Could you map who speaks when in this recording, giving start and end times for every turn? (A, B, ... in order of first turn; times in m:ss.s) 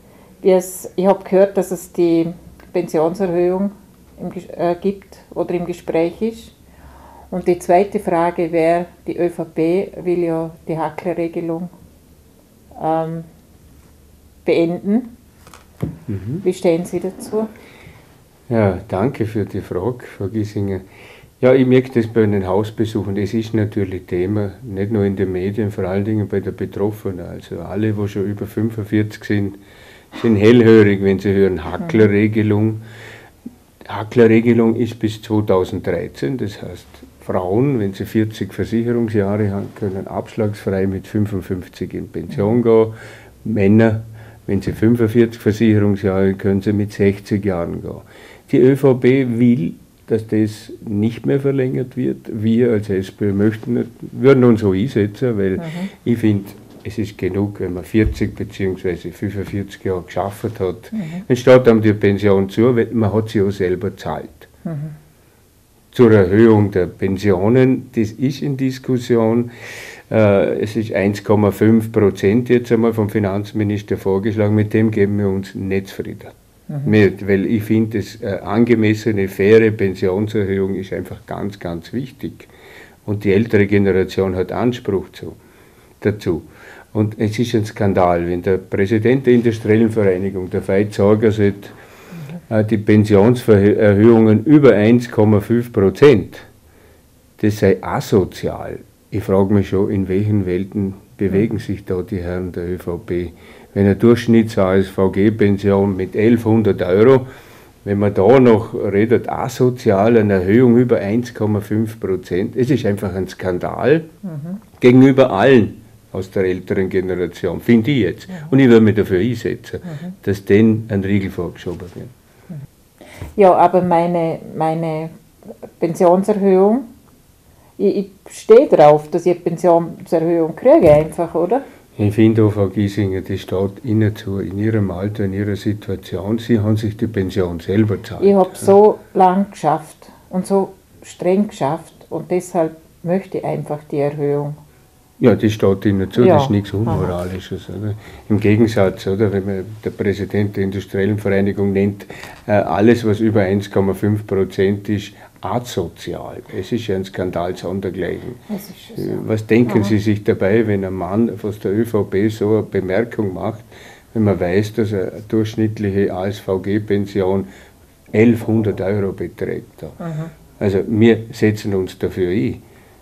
0:00.4-0:06.5 A
0:07.3-0:11.7 A
0:12.7-0:13.3 A
0:14.4-0:15.1 A
0:16.1-0:16.4 B
0:16.4-0:17.5 A
0:18.5-0:20.8 B
0:21.4-0:29.6 B
0:30.1-0:32.8 B
0:33.8-1:04.5 B
0:55.6-0:55.9 A
1:00.9-1:01.2 A
1:04.6-1:04.9 A
1:05.9-1:16.3 B
1:16.7-1:17.0 A
1:16.8-1:22.5 B
1:23.0-1:25.4 B
1:26.0-1:31.7 B
1:32.5-1:36.5 B
1:37.4-1:47.3 B
1:47.8-1:54.1 B
1:54.2-1:54.6 A
1:54.8-2:02.1 B
2:03.3-2:06.9 A
2:07.8-2:11.6 A
2:12.0-2:18.7 B
2:18.2-2:24.6 A
2:25.2-2:47.5 B
2:26.2-2:27.1 A
2:38.5-2:39.9 A
2:48.1-2:50.0 B
2:50.0-2:50.3 A
2:50.6-2:52.6 B